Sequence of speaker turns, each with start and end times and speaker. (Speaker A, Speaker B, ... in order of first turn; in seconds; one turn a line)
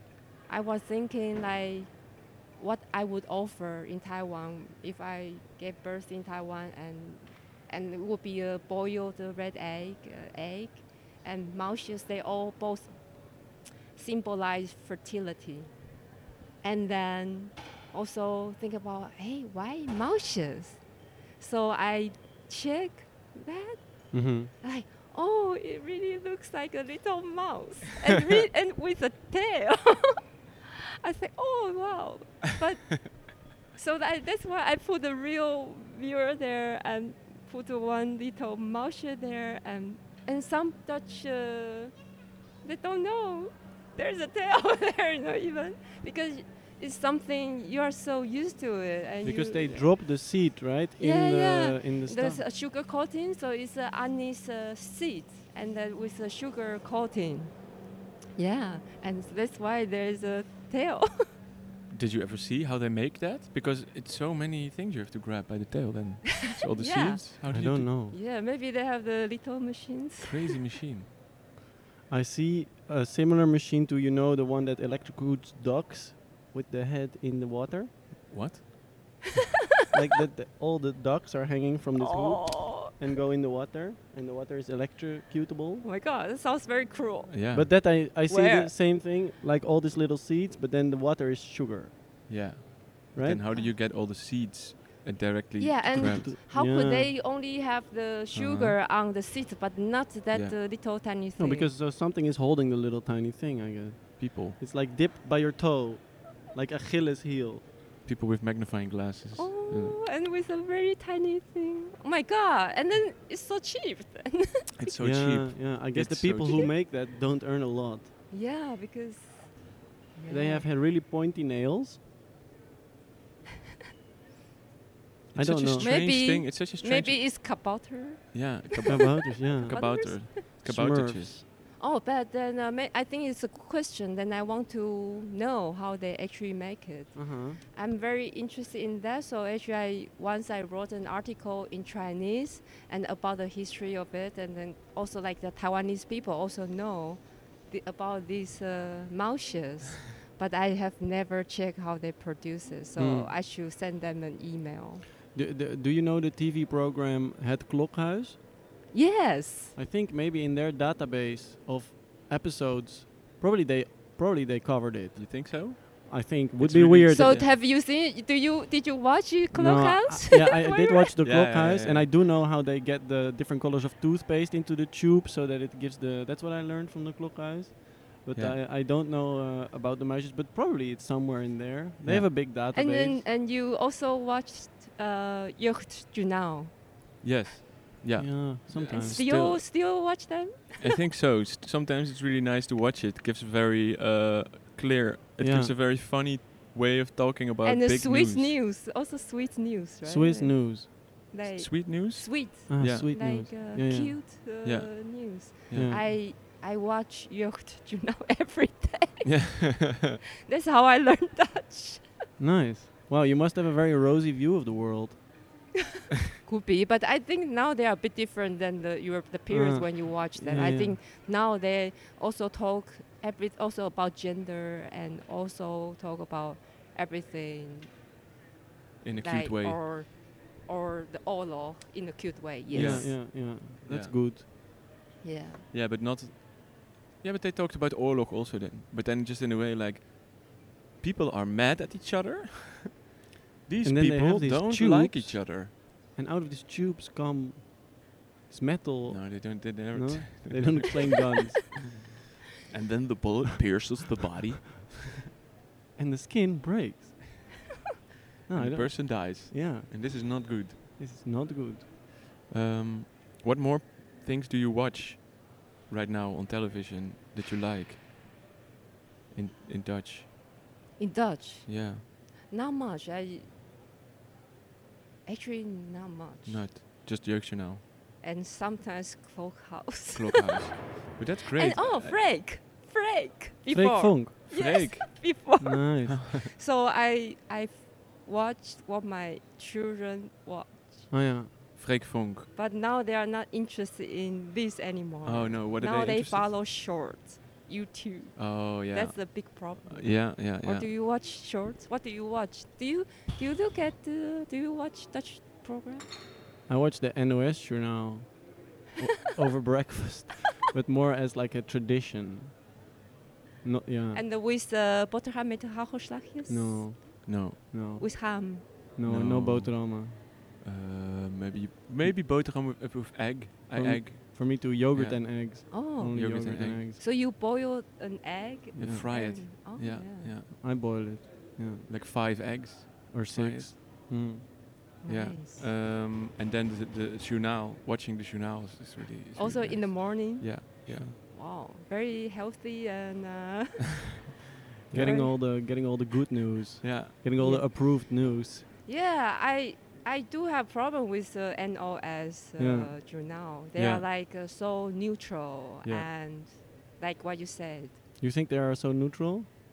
Speaker A: 0.5-2.0
Speaker A: 2.5-13.2
Speaker A: 13.9-15.7
Speaker A: 16.6-20.8
Speaker A: 21.4-30.3
Speaker B: 24.1-24.5
Speaker A: 31.0-42.0
Speaker A: 42.6-50.0
Speaker B: 49.2-52.4
Speaker A: 51.0-57.7
Speaker A: 58.4-61.3
Speaker C: 61.9-67.9
Speaker A: 66.7-67.2
Speaker B: 67.5-68.2
Speaker A: 68.1-70.5
Speaker C: 70.2-71.1
Speaker B: 72.1-77.9
Speaker C: 78.3-78.6
Speaker B: 79.9-85.8
Speaker A: 82.0-82.9
Speaker A: 85.8-87.3
Speaker C: 87.3-87.7
Speaker B: 87.5-91.9
Speaker A: 88.1-88.7
Speaker C: 92.3-96.3
Speaker B: 93.1-93.4
Speaker A: 95.6-101.7
Speaker B: 95.9-97.1
Speaker C: 98.3-98.8
Speaker B: 101.4-107.6
Speaker C: 104.2-104.6
Speaker C: 108.0-110.0
Speaker A: 109.3-114.7
Speaker C: 114.8-116.7
Speaker B: 115.0-118.1
Speaker A: 116.4-116.7
Speaker A: 118.3-120.7
Speaker B: 120.3-122.0
Speaker B: 125.3-125.9
Speaker C: 125.3-127.2
Speaker A: 125.8-130.4
Speaker C: 128.3-131.4
Speaker B: 128.9-131.4
Speaker A: 131.8-155.0
Speaker B: 137.1-137.6
Speaker B: 153.0-153.3
Speaker B: 155.3-158.4
Speaker A: 158.9-159.7
Speaker B: 159.7-167.4
Speaker C: 165.1-167.5
Speaker A: 167.1-171.1
Speaker B: 169.5-183.2
Speaker C: 171.2-172.1
Speaker C: 182.0-182.3
Speaker A: 182.7-186.7
Speaker C: 187.2-189.7
Speaker B: 188.2-189.2
Speaker A: 188.9-191.0
Speaker C: 190.8-198.6
Speaker B: 195.4-195.7
Speaker A: 197.6-209.8
Speaker B: 200.0-200.9
Speaker C: 201.4-203.3
Speaker B: 202.7-204.2
Speaker C: 204.6-206.0
Speaker B: 205.7-206.1
Speaker C: 209.2-210.2
Speaker A: 210.4-212.2
Speaker B: 212.4-215.2
Speaker A: 216.4-228.0
Speaker B: 219.5-221.0
Speaker C: 229.0-229.8
Speaker A: 229.2-233.2
Speaker C: 232.7-234.2
Speaker B: 232.7-234.4
Speaker A: 235.2-235.7
Speaker C: 235.7-243.0
Speaker C: 243.7-245.7
Speaker B: 243.8-251.9
Speaker C: 249.1-251.3
Speaker C: 252.7-255.2
Speaker B: 255.9-257.2
Speaker B: 258.5-260.3
Speaker C: 258.5-260.8
Speaker B: 261.0-261.9
Speaker C: 262.5-268.0
Speaker C: 269.3-270.3
Speaker A: 271.0-273.5
Speaker C: 271.6-272.0
Speaker A: 275.2-276.7
Speaker C: 276.4-277.8
Speaker A: 278.2-280.7
Speaker C: 280.1-282.2
Speaker A: 281.6-291.2
Speaker B: 283.7-284.4
Speaker C: 284.5-285.4
Speaker B: 285.6-286.2
Speaker C: 286.1-286.5
Speaker B: 291.1-291.5
Speaker C: 291.8-292.5
Speaker A: 292.5-306.1
Speaker C: 295.2-296.5
Speaker C: 298.4-300.9
Speaker B: 306.7-312.5
Speaker B: 313.6-314.2
Speaker A: 314.1-317.1
Speaker B: 316.5-320.2
Speaker C: 317.2-317.6
Speaker A: 318.0-318.9
Speaker C: 319.0-326.8
Speaker B: 323.7-327.0
Speaker A: 325.7-326.4
Speaker A: 327.0-330.3
Speaker C: 328.8-330.5
Speaker B: 328.8-329.1
Speaker B: 330.5-331.9
Speaker C: 331.9-333.7
Speaker B: 333.1-334.5
Speaker A: 335.0-335.6
Speaker C: 335.1-341.1
Speaker A: 339.4-344.3
Speaker B: 340.9-341.2
Speaker C: 344.9-345.2
Speaker B: 344.9-348.6
Speaker A: 344.9-345.3
Speaker C: 346.8-347.1
Speaker A: 347.4-348.1
Speaker A: 348.9-358.0
Speaker B: 352.6-352.9
Speaker C: 353.8-354.0
Speaker B: 358.2-359.5